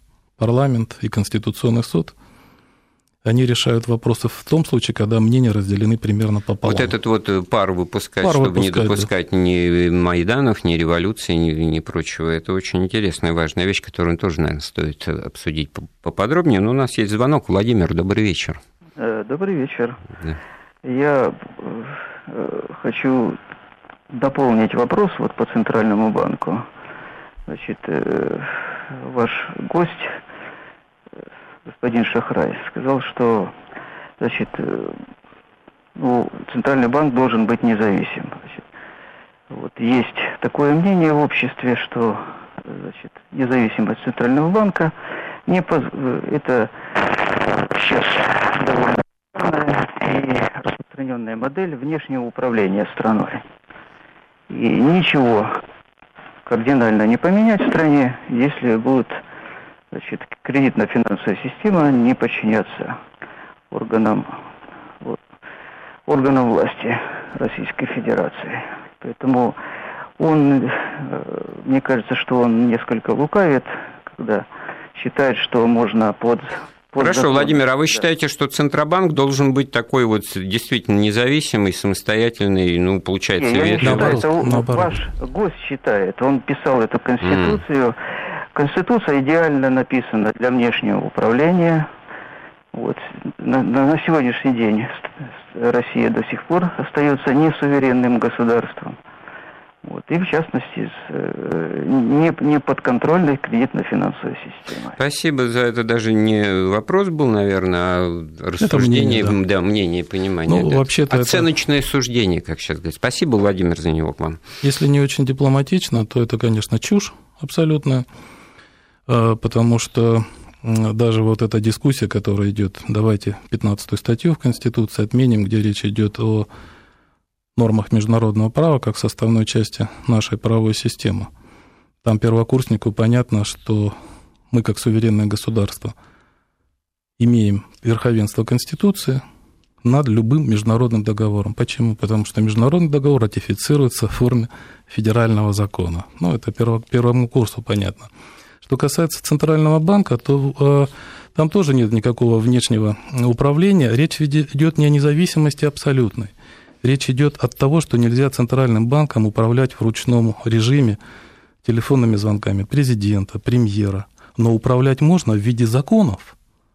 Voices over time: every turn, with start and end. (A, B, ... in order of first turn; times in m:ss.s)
0:00.4-0:02.2 A
0:03.2-0:06.9 A
0:06.6-0:18.6 B
0:08.2-0:09.1 A
0:19.0-0:20.0 C
0:20.8-0:23.4 C
0:24.1-0:26.7 C
0:27.5-0:30.2 C
0:31.8-0:33.5 C
0:34.2-0:35.0 C
0:36.0-0:38.6 C
0:39.5-0:44.9 C
0:45.5-0:53.4 C
0:54.5-0:55.6 C
0:56.5-0:59.2 C
0:59.9-1:03.0 C
1:03.7-1:04.4 C
1:06.1-1:09.6 C
1:10.2-1:18.0 C
1:17.0-1:24.2 B
1:23.4-1:28.0 C
1:23.8-1:25.0 A
1:27.2-1:27.6 B
1:28.5-1:31.9 C
1:32.7-1:39.0 C
1:39.8-1:45.0 C
1:45.0-1:54.4 B
1:48.6-1:49.4 A
1:50.5-1:51.5 A
1:54.6-1:58.1 A
1:59.1-2:06.5 A
2:07.6-2:11.3 A
2:12.0-2:14.0 A
2:14.5-2:16.0 A
2:17.2-2:19.2 A
2:19.8-2:28.1 A
2:28.6-2:36.3 A
2:36.8-2:41.0 A
2:41.6-2:46.4 A